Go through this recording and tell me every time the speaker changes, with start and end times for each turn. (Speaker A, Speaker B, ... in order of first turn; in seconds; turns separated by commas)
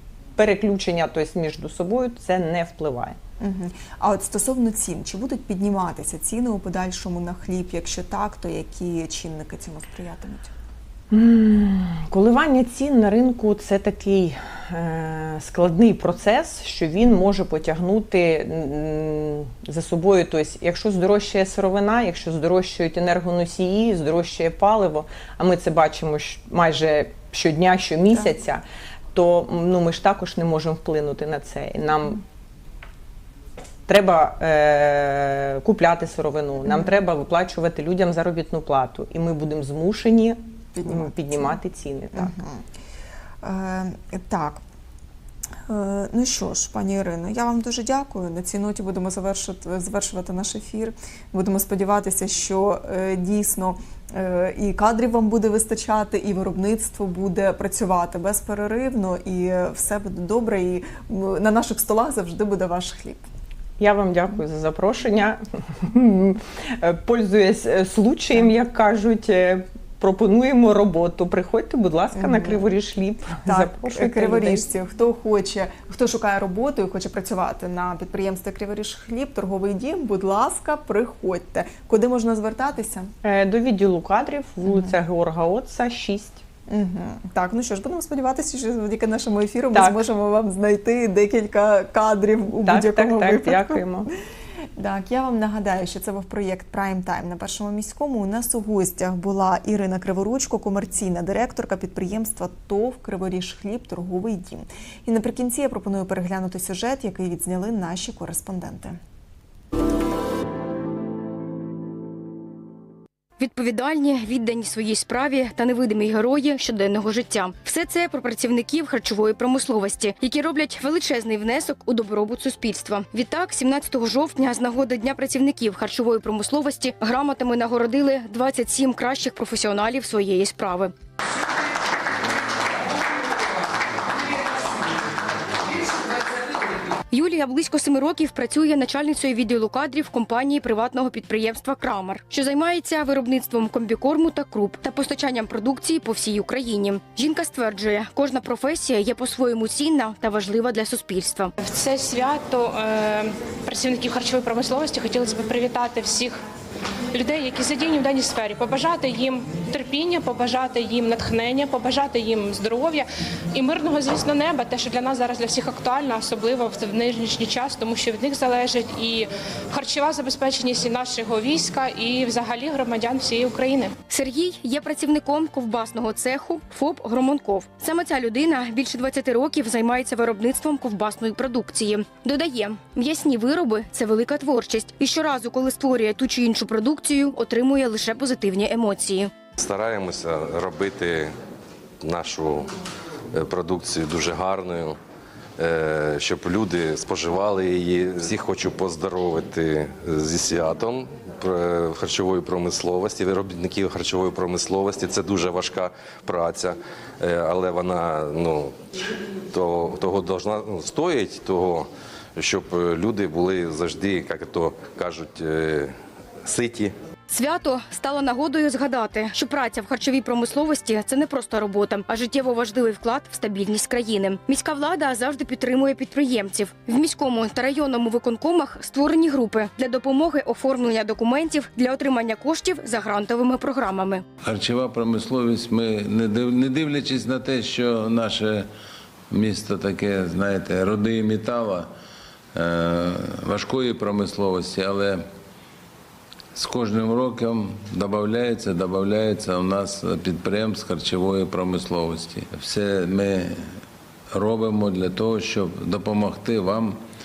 Speaker A: 0.4-3.2, Speaker B: 3.4-10.5, Speaker A: 11.1-28.6, Speaker A: 29.1-32.2, Speaker A: 33.9-42.3, Speaker B: 36.7-37.0, Speaker B: 40.7-41.6, Speaker B: 42.1-42.6, Speaker B: 43.4-44.6, Speaker B: 45.7-63.3, Speaker A: 63.8-74.6, Speaker B: 72.1-72.8, Speaker B: 73.5-83.1, Speaker A: 83.2-86.4, Speaker B: 84.7-85.0, Speaker B: 86.7-93.9, Speaker A: 89.7-90.1, Speaker A: 92.6-94.1, Speaker B: 94.8-109.0, Speaker C: 113.4-130.9, Speaker C: 137.1-151.5, Speaker D: 151.6-156.4, Speaker D: 157.1-173.9, Speaker C: 174.1-189.3, Speaker E: 189.6-191.3, Speaker E: 192.0-192.7, Speaker E: 193.3-195.0, Speaker E: 195.6-208.7, Speaker E: 209.5-215.9, Speaker E: 216.4-216.9, Speaker C: 217.3-234.2, Speaker F: 234.4-238.7, Speaker F: 239.3-241.9, Speaker F: 242.5-245.3, Speaker F: 246.5-253.8, Speaker F: 254.3-257.0